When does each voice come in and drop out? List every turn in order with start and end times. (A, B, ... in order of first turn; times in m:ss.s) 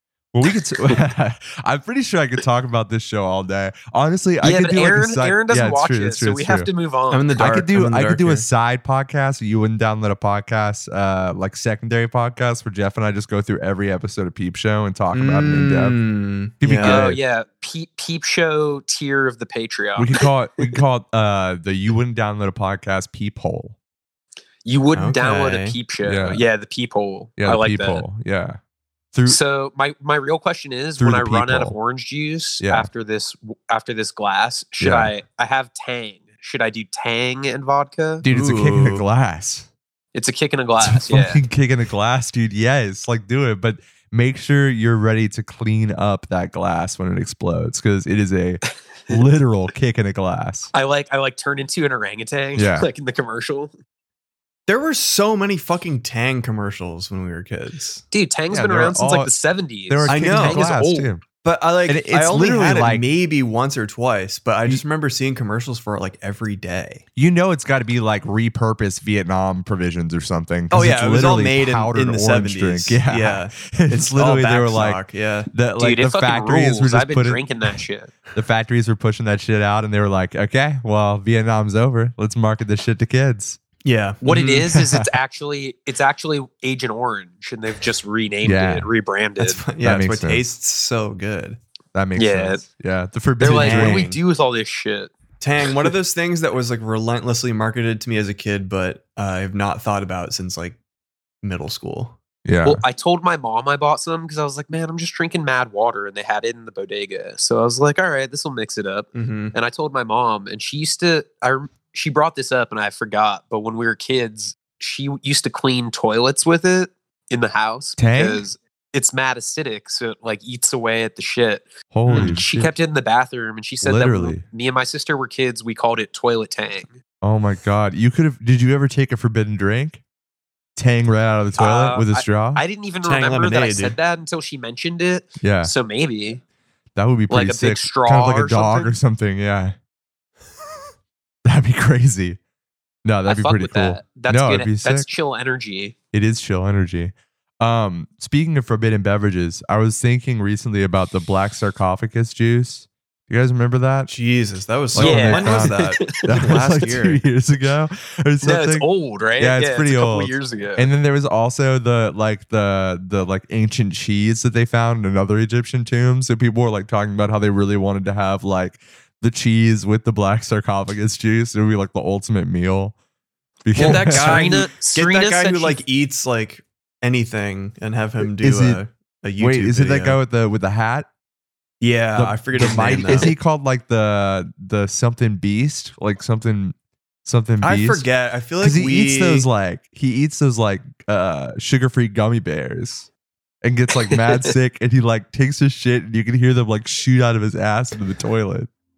0:00.3-0:06.7 A
0:04.4-0:07.4 B
0:07.1-0:08.5 C
0:07.4-0:16.0 A
0:15.1-0:17.1 C
0:16.6-0:17.2 A
0:16.8-0:20.8 B
0:20.0-0:23.8 A
0:24.6-0:28.0 B
0:24.9-0:25.8 C
0:26.0-0:26.4 A
0:27.4-0:28.6 A
0:29.1-0:29.4 A
0:29.3-0:38.2 B
0:31.0-0:31.8 A
0:32.6-0:32.9 A
0:34.8-0:35.1 A
0:38.2-0:39.7 A
0:38.3-0:39.0 C
0:40.1-0:41.4 B
0:40.8-0:50.7 A
0:50.7-0:53.7 B
0:52.6-0:52.9 A
0:54.7-0:58.0 C
0:58.1-1:01.1 B
0:58.5-0:59.3 A
0:59.9-1:01.2 A
1:00.1-1:00.6 C
1:01.4-1:07.0 C
1:01.9-1:03.0 A
1:07.2-1:17.5 A
1:10.7-1:15.5 C
1:15.8-1:18.1 B
1:18.3-1:23.6 A
1:23.8-1:24.7 C
1:24.2-1:29.6 B
1:24.7-1:25.1 A
1:28.4-1:28.9 A
1:29.4-1:31.6 C
1:29.8-1:30.4 A
1:31.9-1:34.0 A
1:32.2-1:32.6 B
1:33.4-1:35.1 B
1:33.4-1:34.2 C
1:35.4-1:40.8 C
1:41.4-1:42.2 C
1:42.4-1:42.8 A
1:42.6-2:06.9 B
1:49.1-1:49.5 C
1:58.0-1:58.4 A
2:01.9-2:02.7 A
2:02.1-2:02.4 C
2:03.8-2:04.4 A
2:07.2-2:10.0 A
2:10.8-2:12.6 A
2:11.6-2:16.4 B
2:13.0-2:14.0 C
2:15.4-2:15.7 A
2:16.9-2:19.8 A
2:17.3-2:18.9 B
2:21.4-2:22.4 A
2:23.0-2:25.1 A
2:23.3-2:25.9 B
2:26.1-2:34.1 A
2:34.1-2:37.2 C
2:34.9-2:38.9 A
2:35.0-2:36.6 B
2:38.4-2:40.9 B
2:39.4-2:52.9 A
2:53.6-2:54.5 A
2:53.8-3:00.2 C
2:53.8-2:55.8 B
2:58.2-2:58.8 A
2:59.4-3:01.1 A
3:01.8-3:03.3 C
3:02.2-3:08.1 A
3:07.6-3:09.5 C
3:08.6-3:13.1 A
3:13.6-3:18.7 A